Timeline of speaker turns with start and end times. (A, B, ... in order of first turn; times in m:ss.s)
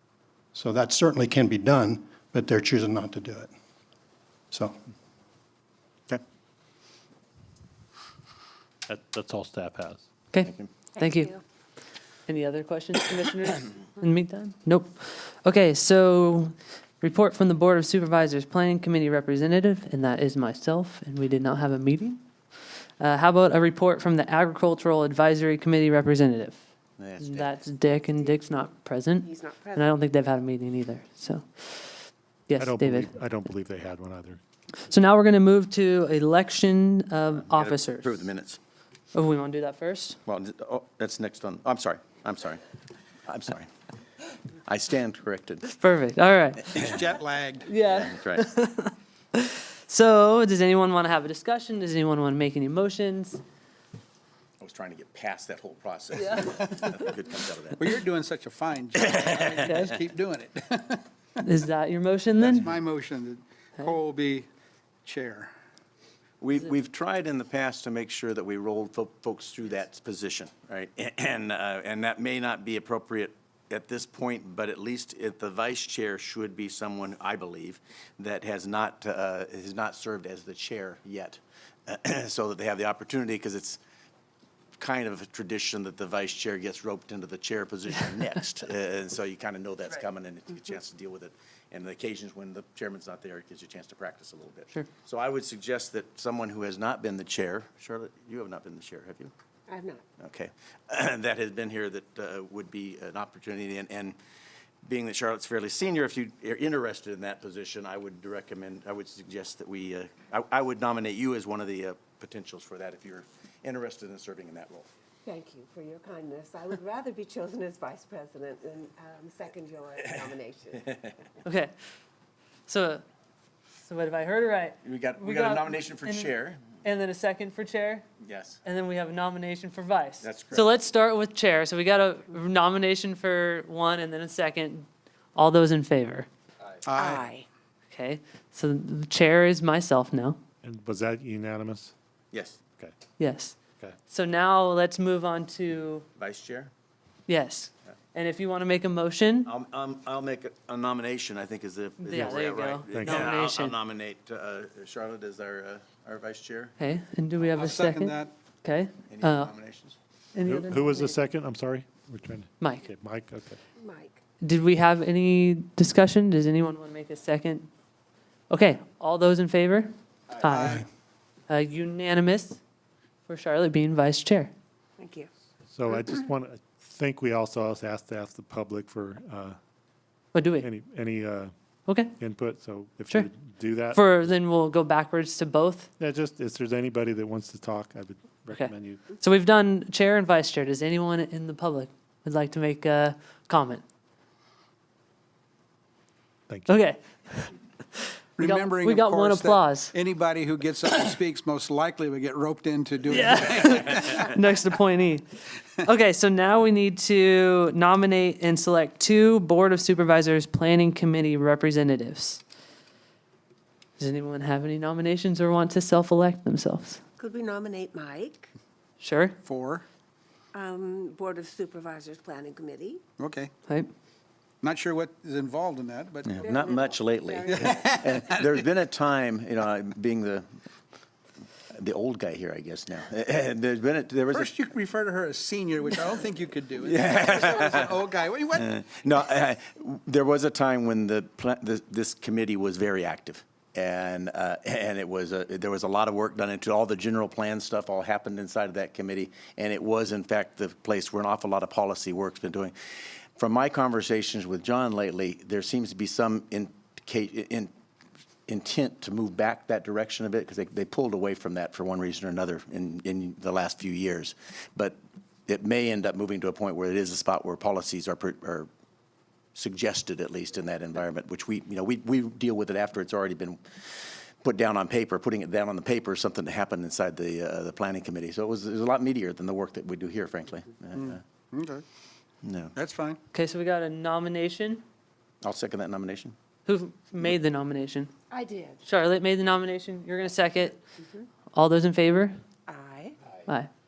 0:00.5-0:03.5 A
0:04.5-0:04.8 A
0:08.9-0:10.0 B
0:10.3-0:11.4 C
0:10.4-0:10.7 D
0:11.0-0:11.4 E
0:12.3-0:22.2 C
0:23.0-0:26.6 C
0:27.0-0:27.7 D
0:27.2-0:32.0 C
0:27.9-0:30.0 E
0:32.5-0:33.1 C
0:32.6-0:34.4 B
0:34.9-0:38.2 C
0:37.3-0:38.6 D
0:39.1-0:40.2 C
0:40.3-0:42.6 D
0:43.3-0:43.7 D
0:44.7-0:45.7 D
0:45.7-0:47.0 C
0:46.8-0:47.7 F
0:47.7-0:53.4 C
0:47.8-0:48.5 D
0:54.6-0:57.8 D
0:56.2-0:57.1 C
0:57.8-1:01.0 F
0:59.1-0:59.8 D
0:59.6-0:59.9 C
1:01.4-1:02.7 C
1:02.4-1:04.5 F
1:05.0-1:05.5 F
1:06.4-1:23.8 D
1:24.8-1:39.3 D
1:39.7-1:40.0 E
1:40.2-1:44.2 D
1:44.8-1:54.9 D
1:55.2-2:00.9 E
2:01.4-2:01.7 C
2:02.7-2:03.0 C
2:03.8-2:08.0 C
2:04.8-2:06.8 D
2:08.2-2:08.6 D
2:08.6-2:16.3 C
2:10.2-2:10.7 D
2:16.9-2:17.3 F
2:17.0-2:17.5 E
2:17.9-2:20.4 C
2:20.6-2:21.9 B
2:22.3-2:22.6 D
2:23.2-2:23.6 C
2:24.1-2:26.1 C
2:26.2-2:26.7 D
2:27.3-2:29.5 C
2:29.5-2:36.8 D
2:32.0-2:33.8 C
2:32.9-2:33.4 B
2:36.8-2:39.5 C
2:37.4-2:38.3 F
2:39.1-2:40.0 D
2:40.4-2:41.2 C
2:40.4-2:43.6 B
2:42.6-2:42.8 C
2:43.8-2:44.2 E
2:44.4-2:47.7 C
2:48.5-2:50.8 C
2:50.4-2:50.8 F
2:51.5-2:52.6 C
2:53.3-2:54.5 C
2:55.0-2:55.3 E
2:55.7-2:59.6 B
3:00.3-3:00.7 C
3:00.6-3:01.5 B
3:01.9-3:02.2 C
3:02.2-3:04.0 B
3:03.9-3:05.9 C
3:06.0-3:09.0 B
3:08.5-3:13.8 C
3:16.5-3:16.8 B
3:16.7-3:19.9 C
3:18.4-3:24.3 F
3:23.1-3:25.3 C
3:25.8-3:32.4 C
3:34.0-3:37.0 C
3:37.2-3:38.5 E
3:39.0-3:39.4 C
3:39.4-3:39.8 F
3:40.5-3:43.0 E
3:43.2-3:43.5 F
3:44.6-3:46.4 F
3:46.3-3:50.5 D
3:46.4-3:47.9 E
3:47.5-3:48.6 F
3:51.7-3:54.6 D
3:54.3-3:58.7 F
3:56.8-3:57.9 D
3:58.6-4:12.7 D
4:13.4-4:17.7 D
4:18.5-4:25.0 D
4:25.5-4:28.7 D
4:29.6-4:41.2 D
4:41.0-4:41.8 F
4:42.4-4:42.7 D
4:42.8-4:43.2 F
4:43.3-4:44.8 C
4:45.4-4:46.4 D
4:46.7-4:48.1 C
4:48.3-4:48.8 E
4:48.8-4:50.8 C
4:51.5-4:52.4 C
4:52.7-4:53.2 E